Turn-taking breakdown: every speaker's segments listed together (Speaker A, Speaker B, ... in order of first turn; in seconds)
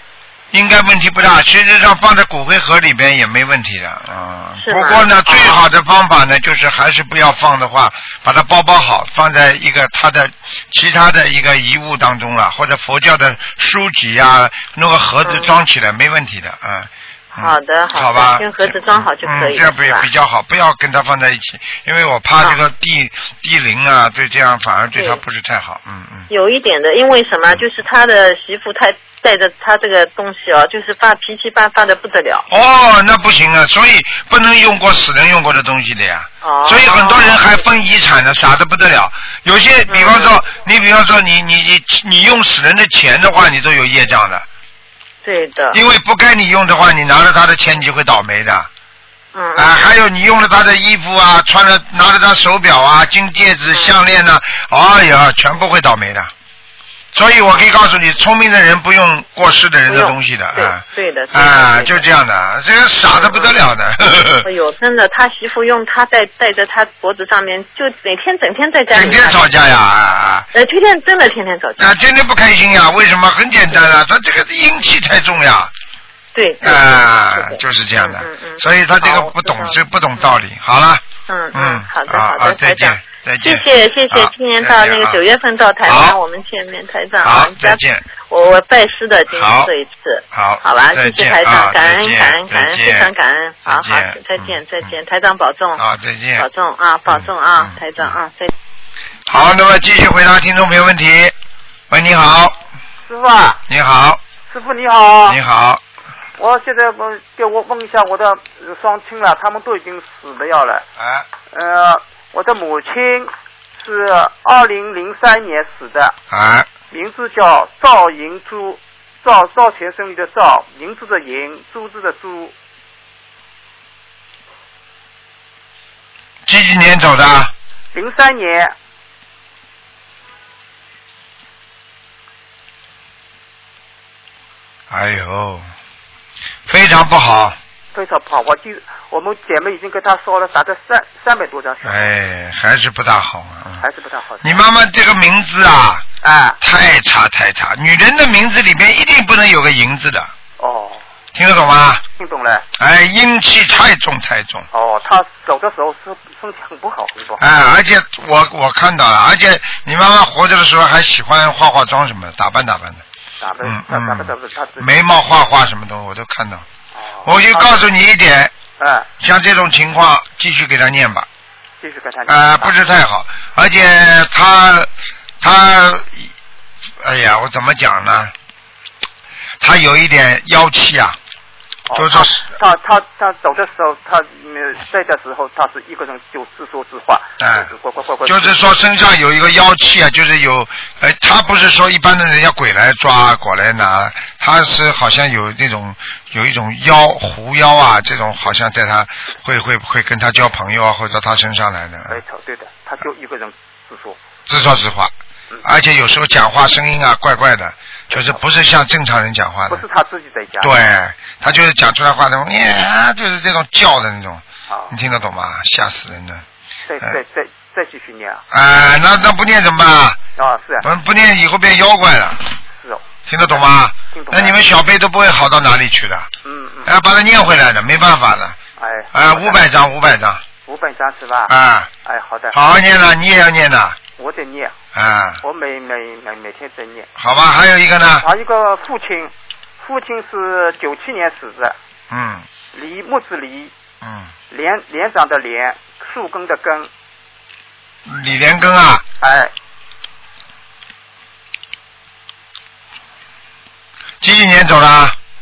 Speaker A: 0.5-26.3, 32.5-44.4, 45.7-48.7, 49.5-56.3, 57.1-64.5, 68.9-70.5, 71.8-75.7, 76.6-85.2, 85.8-86.2, 87.2-88.0, 89.3-89.7, 90.3-93.1, 93.6-94.9, 95.8-96.5, 97.1-98.2, 99.3-101.3, 101.9-102.5, 103.7-104.2, 105.2-105.8, 111.0-111.2, 116.3-116.7, 126.5-127.5, 134.9-135.7, 136.7-137.6, 141.8-143.8, 144.4-146.1, 146.6-150.3, 151.3-152.0, 152.8-154.7, 157.4-163.0, 163.6-166.7, 167.2-168.5, 169.2-171.3, 172.3-174.9, 175.4-176.3, 177.0-178.3, 179.6-181.2, 181.9-182.4, 187.4-187.7, 188.2-202.2, 204.5-205.1, 205.6-209.8, 210.6-216.4, 218.5-220.2, 220.8-222.4, 223.3-226.3, 226.8-228.6, 229.1-230.4, 231.5-231.9, 232.5-234.0, 234.9-235.4, 237.2-238.3, 242.1-242.5, 244.0-244.3, 248.1-249.0, 254.2-255.2
Speaker B: 4.6-5.6, 15.2-15.6, 17.4-20.1, 26.3-32.5, 36.4-37.5, 39.9-40.4, 45.2-45.8, 49.3-49.9, 59.9-62.0, 63.1-63.5, 64.4-69.5, 70.5-72.0, 76.3-80.2, 81.3-95.8, 96.4-98.5
Speaker C: 103.1-103.6, 104.5-105.4, 106.4-110.8, 111.5-116.2, 116.9-122.5, 127.9-128.7, 137.9-142.1, 143.8-144.6, 146.2-146.6, 150.6-151.0, 152.2-152.6, 154.7-157.4, 163.4-164.9, 166.9-167.8, 168.8-169.1, 171.8-172.7, 181.9-188.6, 202.1-204.2, 208.1-208.4, 209.7-210.8, 214.7-214.9, 216.9-218.4, 220.4-220.9, 222.8-224.6, 226.4-226.9, 228.8-229.6, 230.7-231.5, 232.0-232.6, 234.2-234.7, 235.4-237.1, 238.2-241.8, 242.7-243.7, 244.5-246.9, 249.2-249.5